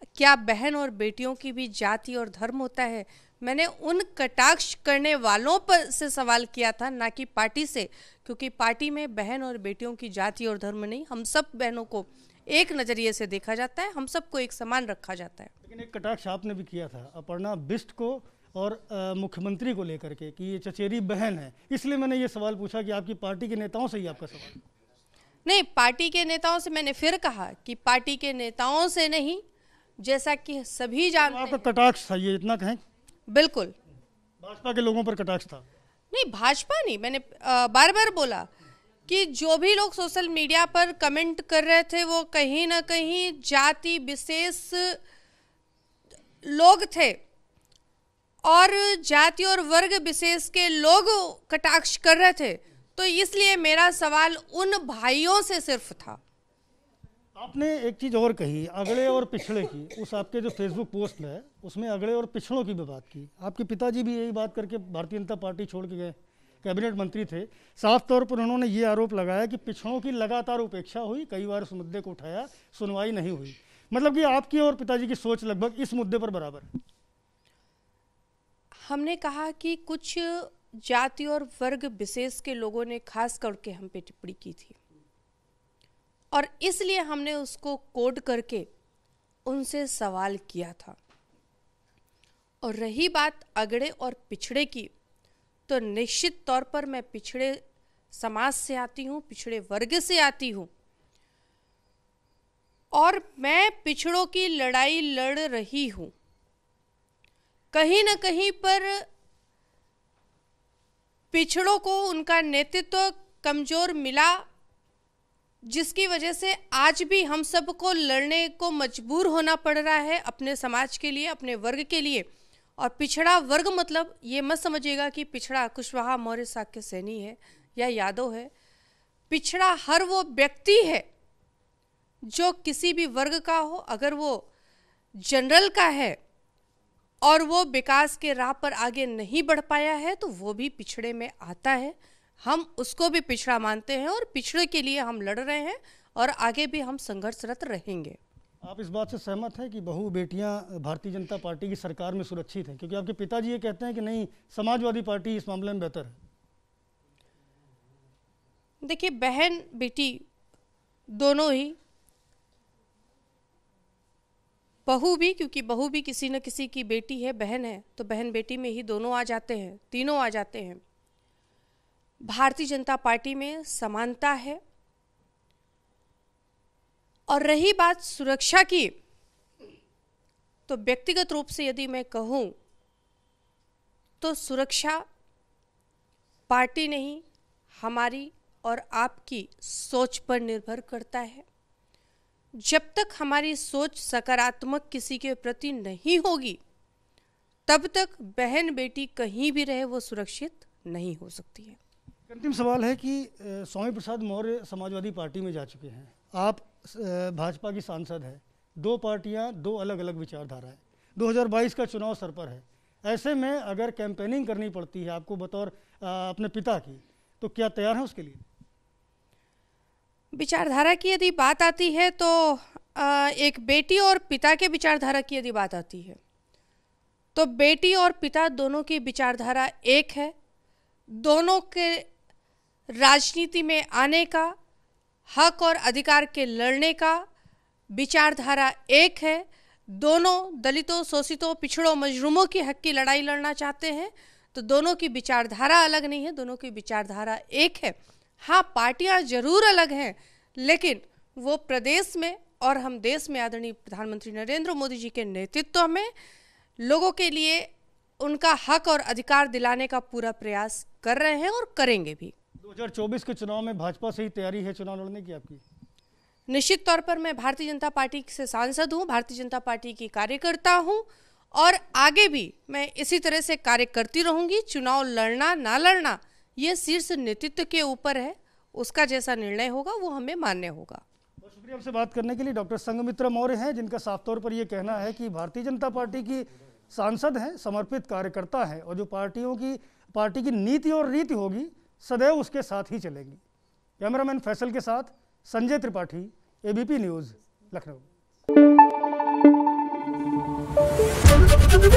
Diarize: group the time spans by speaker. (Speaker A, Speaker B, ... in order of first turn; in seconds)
Speaker A: 0.1-15.5, 25.4-29.4, 30.0-31.6, 33.3-33.7, 36.1-38.5, 39.1-45.0, 46.4-47.2, 48.4-56.2, 78.8-84.8, 86.3-88.7, 89.5-91.0, 92.6-94.9, 95.7-97.6, 98.1-100.7, 102.9-106.1, 107.7-109.0, 111.3-114.4, 115.6-122.3, 122.8-128.5, 129.3-131.1, 132.2-134.5, 135.2-136.2, 137.2-148.2, 158.8-160.2, 161.1-161.8, 164.9-170.8, 172.2-174.6, 177.3-178.9, 180.7-182.5, 184.2-185.0, 186.5-187.2, 187.8-191.4, 192.6-196.6, 197.7-201.8, 220.3-226.2, 227.3-230.3, 231.1-232.1, 232.9-234.5, 235.3-237.2, 237.9-256.1, 256.8-262.3, 266.5-281.0
Speaker B: 15.6-24.6, 31.2-32.8, 34.4-35.6, 57.4-76.7, 148.6-156.2, 202.3-218.4, 262.6-265.6, 281.4-293.4, 294.0-298.1